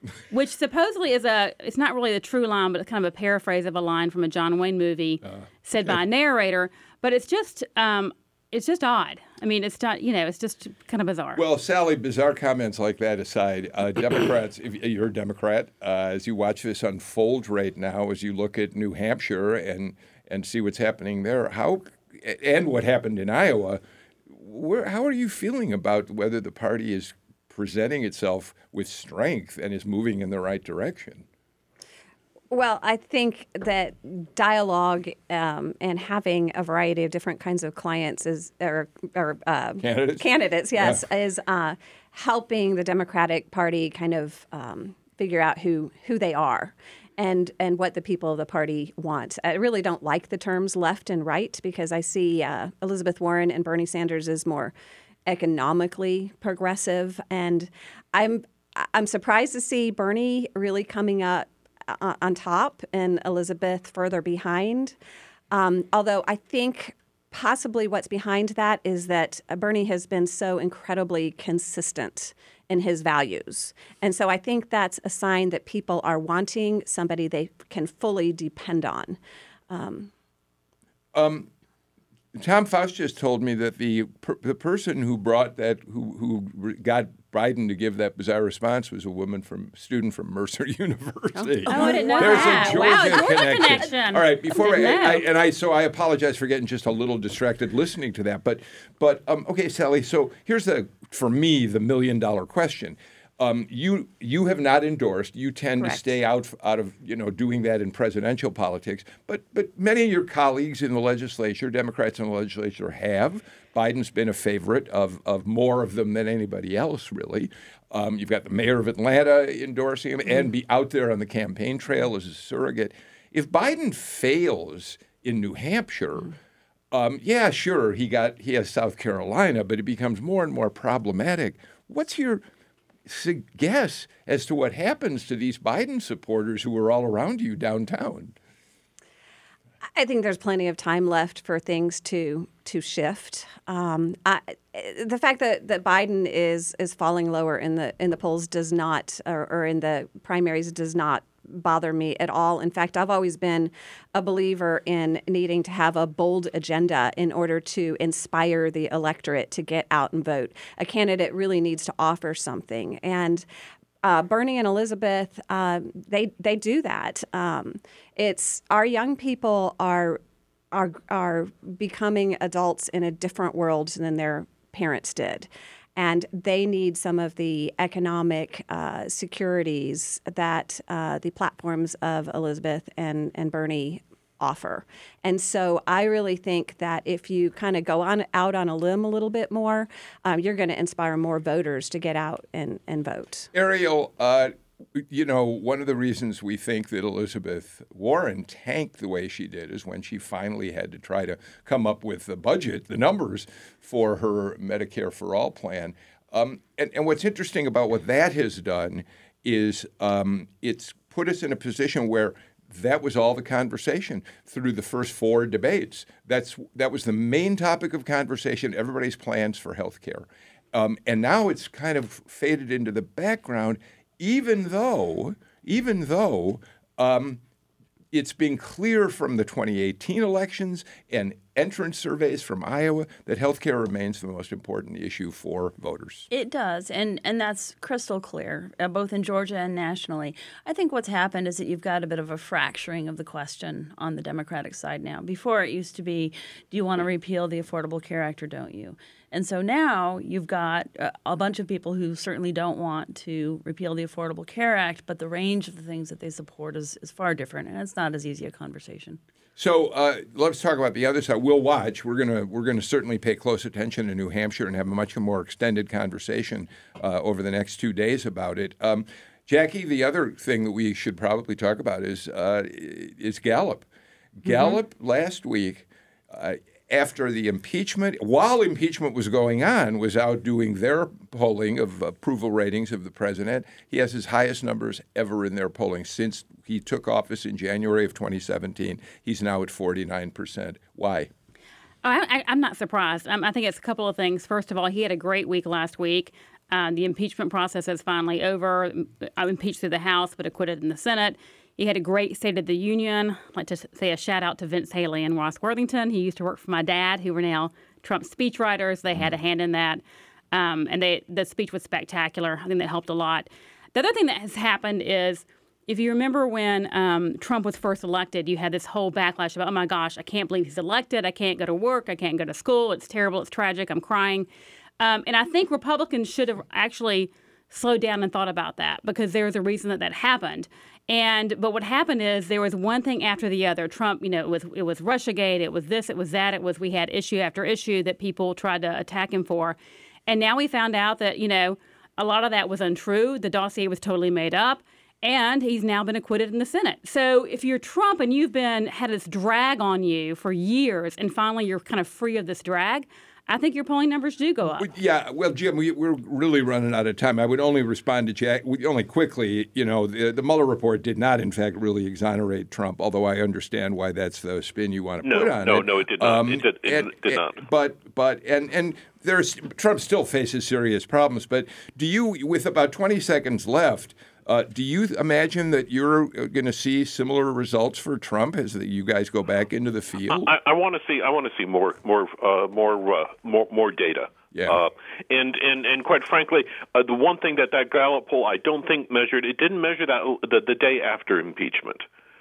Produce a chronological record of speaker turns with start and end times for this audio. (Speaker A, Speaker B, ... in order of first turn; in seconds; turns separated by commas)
Speaker A: 0.3-11.4, Speaker B: 5.2-5.9, Speaker B: 11.3-31.2, Speaker C: 32.5-54.7, Speaker B: 39.8-41.0, Speaker C: 55.3-64.9, Speaker C: 65.5-79.2, Speaker C: 79.7-80.1, Speaker B: 81.1-81.5, Speaker B: 82.3-126.3, Speaker C: 91.4-92.7, Speaker A: 91.7-95.3, Speaker D: 91.8-92.5, Speaker B: 126.9-132.4, Speaker B: 133.1-138.3, Speaker C: 139.9-163.4, Speaker C: 164.0-170.2, Speaker C: 170.7-193.5, Speaker B: 193.5-227.4, Speaker B: 228.1-236.3, Speaker D: 236.3-259.2, Speaker B: 259.6-273.9, Speaker B: 274.4-291.3, Speaker A: 292.0-310.0, Speaker A: 310.5-324.5, Speaker A: 325.0-339.8, Speaker A: 340.3-354.9, Speaker B: 354.8-380.5, Speaker E: 365.2-367.6, Speaker E: 380.3-392.0, Speaker B: 384.5-384.8